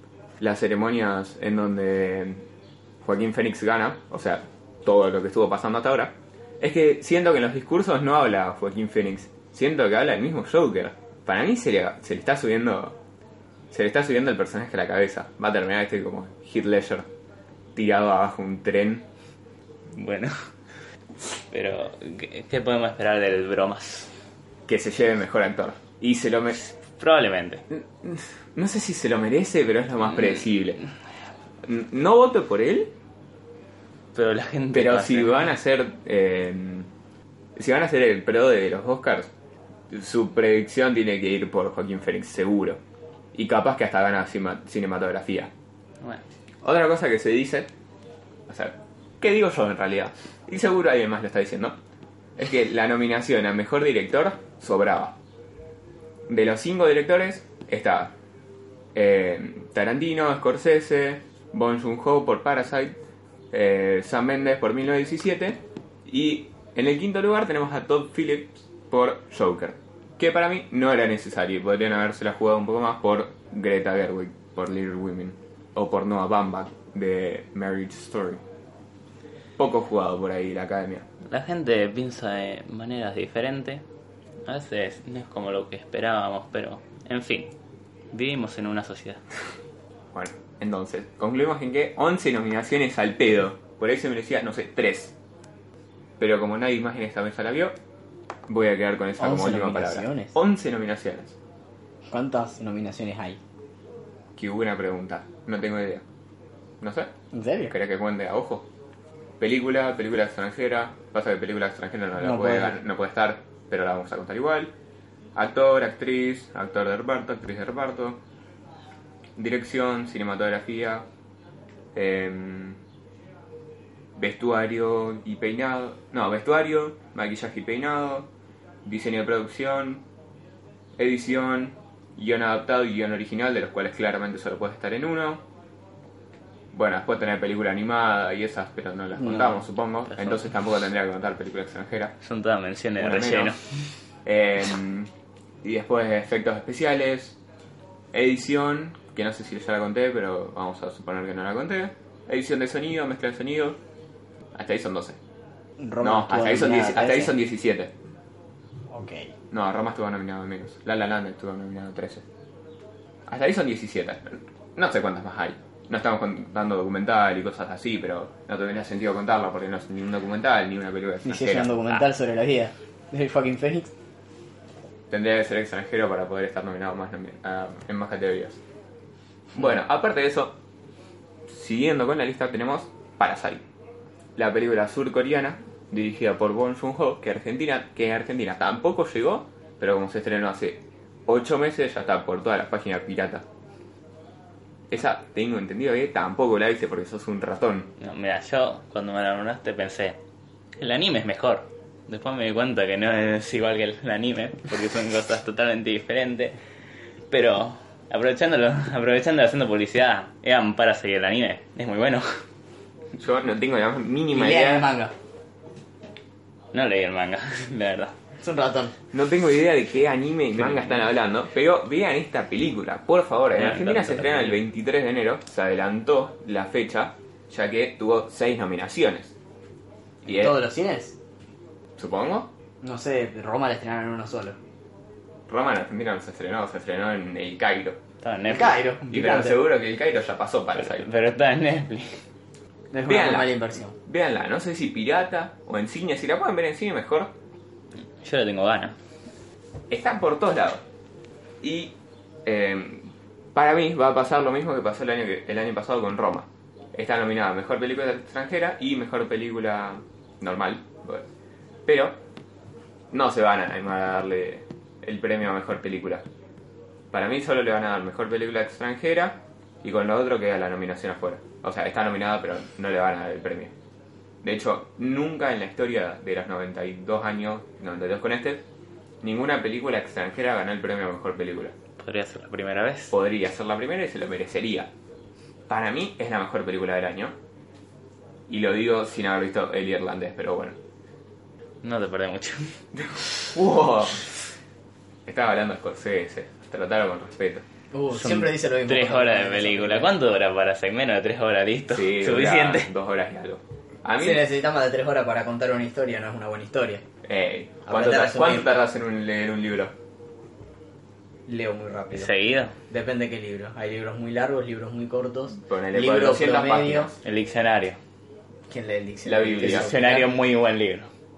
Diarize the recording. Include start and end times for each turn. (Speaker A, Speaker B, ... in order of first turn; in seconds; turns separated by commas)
Speaker A: 0.4-2.4, Speaker A: 3.0-13.0, Speaker A: 13.7-17.1, Speaker A: 17.7-19.1, Speaker B: 19.9-20.3, Speaker B: 21.2-24.1, Speaker A: 24.7-26.6, Speaker B: 26.7-27.6, Speaker A: 27.7-30.8, Speaker A: 31.6-32.9, Speaker B: 34.1-35.5, Speaker A: 34.7-36.9, Speaker A: 37.5-39.3, Speaker A: 39.9-42.8, Speaker A: 43.3-45.5, Speaker A: 46.6-47.7, Speaker A: 48.5-51.8, Speaker A: 52.4-55.2, Speaker A: 56.3-58.1, Speaker A: 58.9-63.0, Speaker A: 63.5-78.4, Speaker A: 79.6-81.0, Speaker B: 81.2-83.8, Speaker B: 84.5-87.5, Speaker B: 88.1-89.2, Speaker A: 90.1-95.1, Speaker A: 96.2-97.7, Speaker A: 98.5-101.3, Speaker C: 99.2-100.3, Speaker C: 102.1-103.4, Speaker A: 104.3-106.0, Speaker A: 106.8-107.1, Speaker C: 107.3-107.7, Speaker A: 107.7-108.7, Speaker A: 109.4-114.7, Speaker C: 112.2-112.8, Speaker A: 115.3-118.2, Speaker A: 119.3-121.0, Speaker A: 121.9-122.8, Speaker A: 124.2-128.3, Speaker A: 128.8-130.0, Speaker A: 131.0-135.4, Speaker A: 136.7-142.1, Speaker B: 142.2-143.7, Speaker A: 143.0-143.6, Speaker A: 144.2-145.1, Speaker A: 145.6-147.4, Speaker A: 148.1-153.8, Speaker A: 154.5-155.2, Speaker C: 155.8-157.3, Speaker A: 156.0-157.9, Speaker C: 158.9-159.3, Speaker A: 159.5-162.2, Speaker A: 163.3-171.9, Speaker C: 171.2-173.9, Speaker A: 175.1-178.6, Speaker A: 179.5-180.6, Speaker A: 181.5-183.6, Speaker A: 184.3-193.4, Speaker A: 194.9-197.9, Speaker B: 198.0-200.2, Speaker B: 200.8-206.6, Speaker B: 207.3-212.4, Speaker A: 213.2-214.9, Speaker C: 214.3-215.1, Speaker B: 216.7-218.1, Speaker C: 218.4-218.9, Speaker A: 219.1-229.3, Speaker B: 223.6-224.6, Speaker A: 230.2-230.6, Speaker C: 230.3-231.2, Speaker A: 232.0-232.5, Speaker C: 232.8-234.6, Speaker A: 235.5-238.0, Speaker B: 238.2-238.8, Speaker C: 238.5-239.6, Speaker A: 239.1-241.1, Speaker B: 240.7-242.2, Speaker C: 242.9-243.9, Speaker A: 243.1-247.3, Speaker B: 248.2-248.9, Speaker A: 249.9-250.8, Speaker A: 251.6-251.9, Speaker A: 252.4-261.2, Speaker A: 261.9-262.2, Speaker A: 263.1-266.2, Speaker A: 267.1-273.7, Speaker A: 274.4-278.6, Speaker A: 279.2-281.7, Speaker B: 282.0-283.1, Speaker A: 283.1-284.9, Speaker A: 285.7-287.4, Speaker A: 288.5-290.8, Speaker B: 291.8-292.8, Speaker A: 292.9-294.2, Speaker A: 295.2-297.6, Speaker C: 297.9-300.1, Speaker B: 298.1-302.9, Speaker A: 301.9-304.4, Speaker C: 304.2-307.0, Speaker A: 307.2-309.9, Speaker C: 307.9-308.7, Speaker C: 311.5-312.3, Speaker B: 312.1-312.7, Speaker C: 312.9-317.1, Speaker A: 315.6-317.2, Speaker B: 317.2-318.0, Speaker C: 318.7-320.3, Speaker A: 319.2-320.0, Speaker B: 319.6-321.1